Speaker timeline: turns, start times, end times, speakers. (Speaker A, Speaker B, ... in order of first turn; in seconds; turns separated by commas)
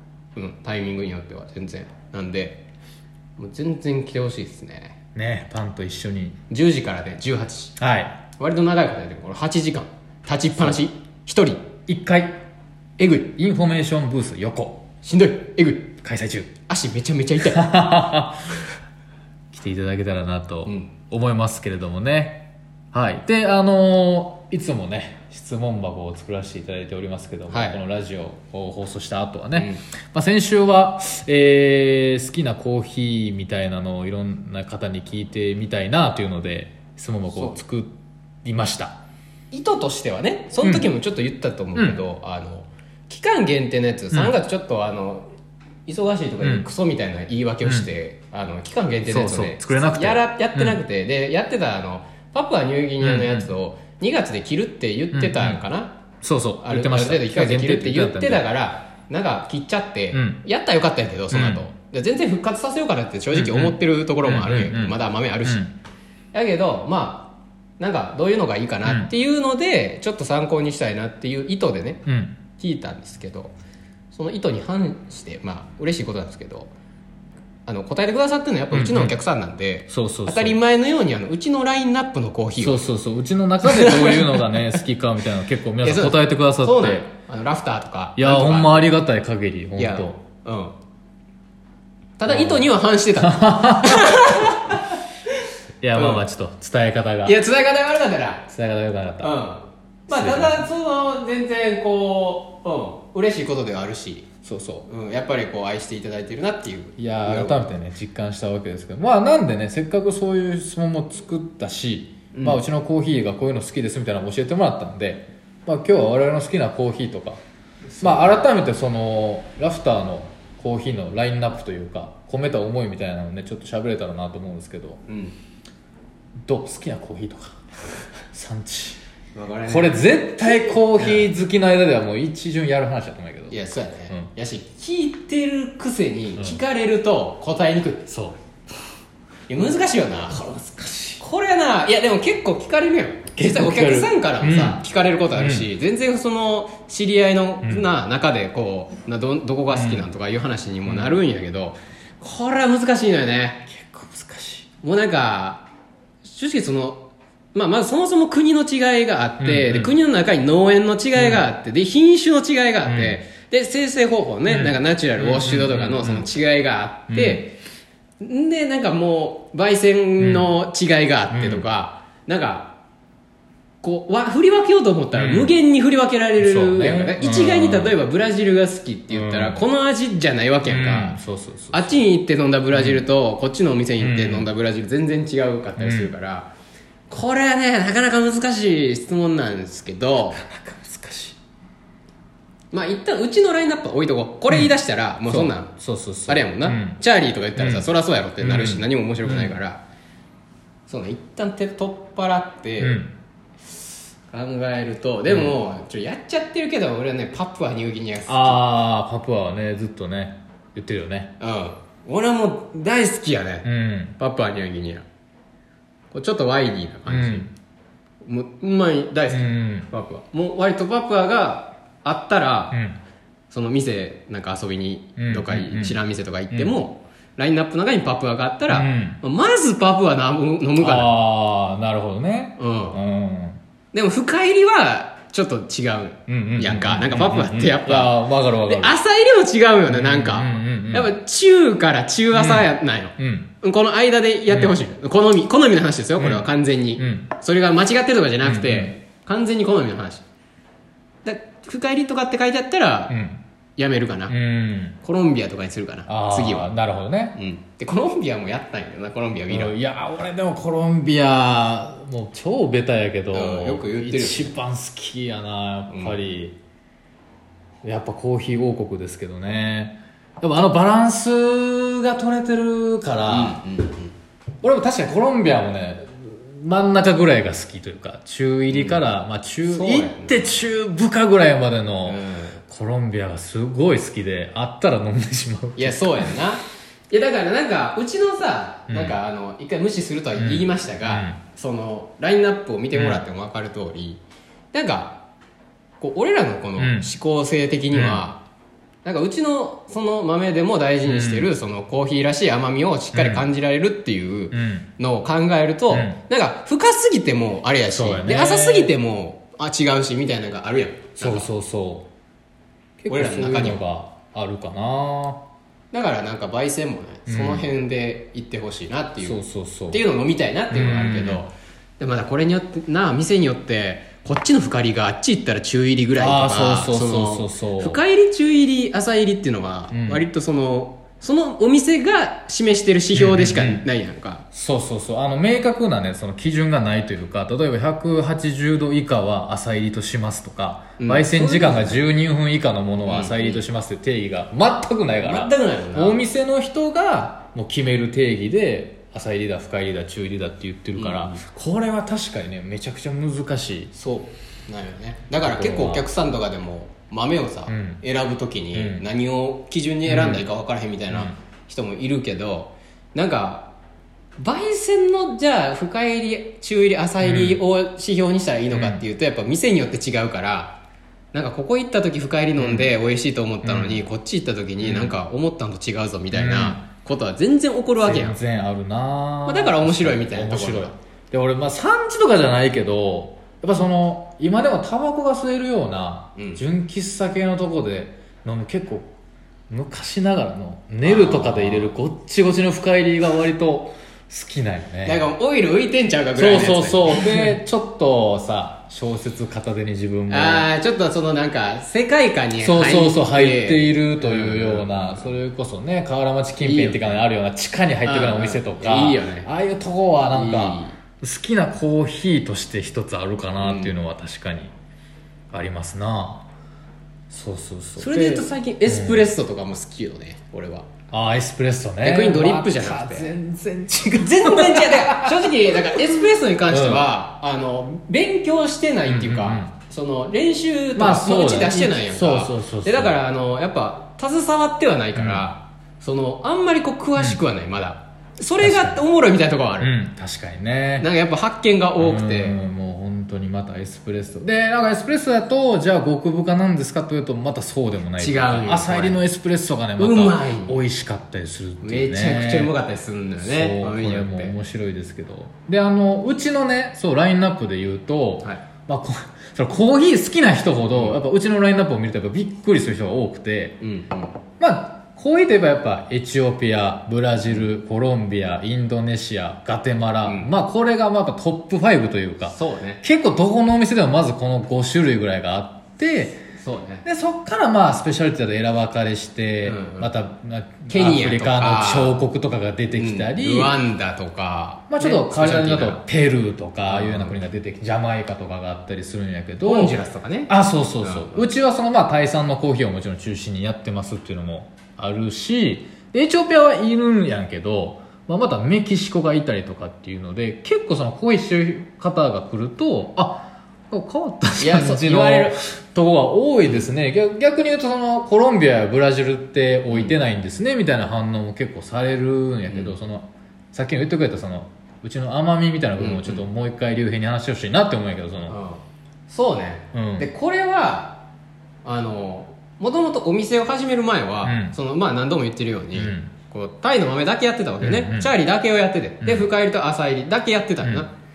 Speaker A: 0.3-2.6, Speaker A: 3.4-4.9, Speaker B: 5.1-6.4, Speaker A: 6.5-7.7, Speaker B: 7.8-8.2, Speaker A: 8.4-11.7, Speaker B: 11.9-12.4, Speaker A: 13.0-13.3, Speaker B: 13.3-14.8, Speaker A: 15.0-15.9, Speaker B: 16.0-16.5, Speaker A: 16.7-17.7, Speaker B: 17.5-18.4, Speaker B: 19.5-39.0, Speaker A: 20.6-20.9, Speaker A: 27.5-27.8, Speaker A: 29.6-29.8, Speaker A: 37.3-37.6, Speaker A: 39.5-45.2, Speaker B: 40.6-40.9, Speaker B: 41.7-42.0, Speaker A: 45.9-55.9, Speaker B: 46.4-46.7, Speaker B: 47.6-47.9, Speaker B: 49.0-50.8, Speaker B: 53.0-53.5, Speaker B: 55.1-55.6, Speaker B: 56.2-58.4, Speaker A: 56.6-65.7, Speaker B: 60.1-60.4, Speaker B: 61.3-61.6, Speaker B: 63.3-65.7, Speaker A: 66.3-72.0, Speaker B: 68.8-69.1, Speaker B: 72.0-72.4, Speaker A: 72.6-73.5, Speaker A: 74.1-76.7, Speaker A: 77.7-82.9, Speaker B: 78.7-79.2, Speaker B: 79.9-80.6, Speaker B: 82.6-87.0, Speaker A: 83.6-84.8, Speaker A: 85.8-88.9, Speaker B: 88.2-90.2, Speaker A: 89.8-90.7, Speaker A: 92.2-95.0, Speaker B: 92.3-94.2, Speaker B: 95.8-97.4, Speaker A: 95.9-96.2, Speaker A: 97.2-98.5, Speaker B: 98.5-99.3, Speaker A: 99.2-104.3, Speaker B: 100.1-100.6, Speaker B: 104.4-104.9, Speaker A: 104.8-107.7, Speaker B: 107.0-117.4, Speaker A: 112.3-112.6, Speaker A: 117.9-118.4, Speaker B: 118.0-125.0, Speaker A: 125.1-125.3, Speaker B: 126.5-127.6, Speaker B: 128.3-129.0, Speaker A: 129.3-131.3, Speaker B: 129.7-133.6, Speaker A: 133.5-138.1, Speaker B: 138.1-138.4, Speaker A: 139.5-140.4, Speaker B: 140.3-141.2, Speaker A: 141.2-153.7, Speaker B: 143.3-144.8, Speaker B: 145.3-145.7, Speaker B: 149.7-150.1, Speaker B: 150.9-151.2, Speaker B: 153.7-154.7, Speaker A: 154.8-155.7, Speaker A: 156.2-157.0, Speaker A: 157.5-167.6, Speaker B: 159.4-159.9, Speaker B: 161.2-161.4, Speaker B: 162.8-163.2, Speaker B: 164.5-166.3, Speaker B: 167.1-167.4, Speaker A: 168.2-172.7, Speaker B: 170.2-170.5, Speaker B: 171.3-171.6, Speaker A: 173.8-181.2, Speaker B: 175.2-175.5, Speaker B: 176.4-177.9, Speaker B: 179.1-179.6, Speaker B: 180.7-182.1, Speaker A: 181.7-186.5, Speaker B: 182.7-183.0, Speaker B: 184.0-184.5, Speaker B: 185.8-186.1, Speaker A: 187.1-190.4, Speaker B: 190.3-191.4, Speaker A: 192.7-195.7, Speaker B: 195.3-197.0, Speaker A: 196.3-199.8, Speaker B: 197.6-197.9, Speaker B: 198.4-199.5, Speaker A: 200.9-203.0, Speaker B: 202.8-203.1, Speaker A: 204.3-208.6, Speaker B: 205.3-205.5, Speaker B: 208.3-211.3, Speaker A: 211.4-215.0, Speaker B: 213.6-214.1, Speaker A: 216.1-217.5, Speaker B: 217.1-217.5, Speaker A: 218.2-222.8, Speaker B: 219.3-219.9, Speaker B: 222.7-223.0, Speaker A: 223.5-231.1, Speaker B: 225.2-226.0, Speaker B: 228.7-229.2, Speaker B: 230.8-233.6, Speaker A: 232.6-233.0, Speaker A: 233.9-250.2, Speaker B: 236.3-239.0, Speaker B: 239.9-241.1, Speaker B: 242.3-243.5, Speaker B: 244.5-244.8, Speaker B: 246.2-246.4, Speaker B: 247.0-247.3, Speaker B: 248.4-248.9, Speaker A: 251.2-253.2, Speaker B: 253.1-253.4, Speaker A: 253.8-254.3, Speaker B: 254.3-254.9, Speaker A: 255.0-256.7, Speaker B: 256.1-257.4, Speaker A: 257.3-259.7, Speaker B: 259.5-266.6, Speaker A: 263.3-264.5, Speaker A: 265.9-266.1, Speaker B: 267.8-273.6, Speaker A: 273.3-274.1, Speaker B: 274.6-286.4, Speaker A: 278.7-279.0, Speaker A: 279.6-280.5, Speaker A: 282.1-282.6, Speaker A: 285.8-294.2, Speaker B: 288.9-289.1, Speaker B: 290.4-291.4, Speaker B: 292.9-293.2, Speaker A: 294.7-295.2, Speaker A: 296.0-298.4, Speaker B: 296.8-297.1, Speaker B: 297.9-298.2, Speaker A: 299.0-311.5, Speaker B: 301.1-301.5, Speaker B: 303.1-303.5, Speaker B: 304.5-304.9, Speaker B: 305.9-306.2, Speaker B: 307.9-308.9, Speaker B: 311.2-312.1, Speaker B: 313.0-315.4, Speaker A: 313.1-313.8, Speaker A: 315.9-334.4, Speaker B: 317.3-317.7, Speaker B: 319.2-320.0, Speaker B: 320.7-321.4, Speaker B: 326.1-328.0, Speaker B: 329.9-330.2, Speaker B: 333.1-333.8, Speaker B: 334.5-353.9, Speaker A: 341.0-342.0, Speaker A: 343.0-343.6, Speaker A: 345.2-346.2, Speaker A: 350.9-351.4, Speaker A: 353.9-363.7, Speaker B: 355.4-356.0, Speaker B: 357.7-358.0, Speaker B: 358.7-359.0, Speaker B: 360.1-360.4, Speaker A: 364.4-370.8, Speaker B: 367.2-367.6, Speaker B: 368.7-369.0, Speaker A: 371.3-378.4, Speaker B: 372.6-372.9, Speaker B: 373.6-374.1, Speaker B: 374.8-375.1, Speaker B: 376.3-376.8, Speaker B: 378.0-389.1, Speaker A: 379.4-380.9, Speaker A: 386.4-386.6, Speaker B: 389.7-395.2, Speaker A: 391.0-391.9, Speaker A: 395.0-397.6, Speaker B: 396.3-400.7, Speaker A: 400.3-405.3, Speaker B: 402.6-414.7, Speaker A: 406.6-407.2, Speaker A: 408.1-409.5, Speaker A: 410.3-410.9, Speaker A: 413.6-413.9, Speaker B: 415.5-416.4, Speaker B: 417.3-419.3, Speaker A: 418.0-420.9, Speaker B: 421.1-427.1, Speaker A: 422.0-423.4, Speaker A: 424.1-439.9, Speaker B: 429.1-429.7, Speaker B: 430.9-433.1, Speaker B: 435.1-435.4, Speaker B: 438.6-439.0, Speaker B: 439.8-441.1, Speaker A: 441.0-442.6, Speaker B: 442.0-452.7, Speaker A: 448.2-449.2, Speaker A: 450.0-450.8, Speaker A: 451.8-454.5, Speaker B: 453.4-463.8, Speaker A: 460.9-461.2, Speaker A: 463.8-464.3, Speaker B: 464.6-476.4, Speaker A: 472.4-473.0, Speaker A: 476.5-477.0, Speaker B: 477.0-483.8, Speaker A: 479.6-480.1, Speaker A: 480.9-482.2, Speaker A: 482.9-486.0, Speaker B: 484.9-489.9, Speaker A: 486.9-487.4, Speaker A: 489.6-491.5, Speaker B: 490.5-518.5, Speaker A: 504.6-505.6, Speaker A: 509.9-510.1, Speaker A: 512.6-512.9, Speaker A: 516.0-516.4, Speaker A: 518.5-521.2, Speaker B: 519.9-520.3, Speaker A: 521.8-531.1, Speaker B: 524.4-524.8, Speaker B: 525.9-526.3, Speaker B: 527.8-528.3, Speaker B: 529.2-529.5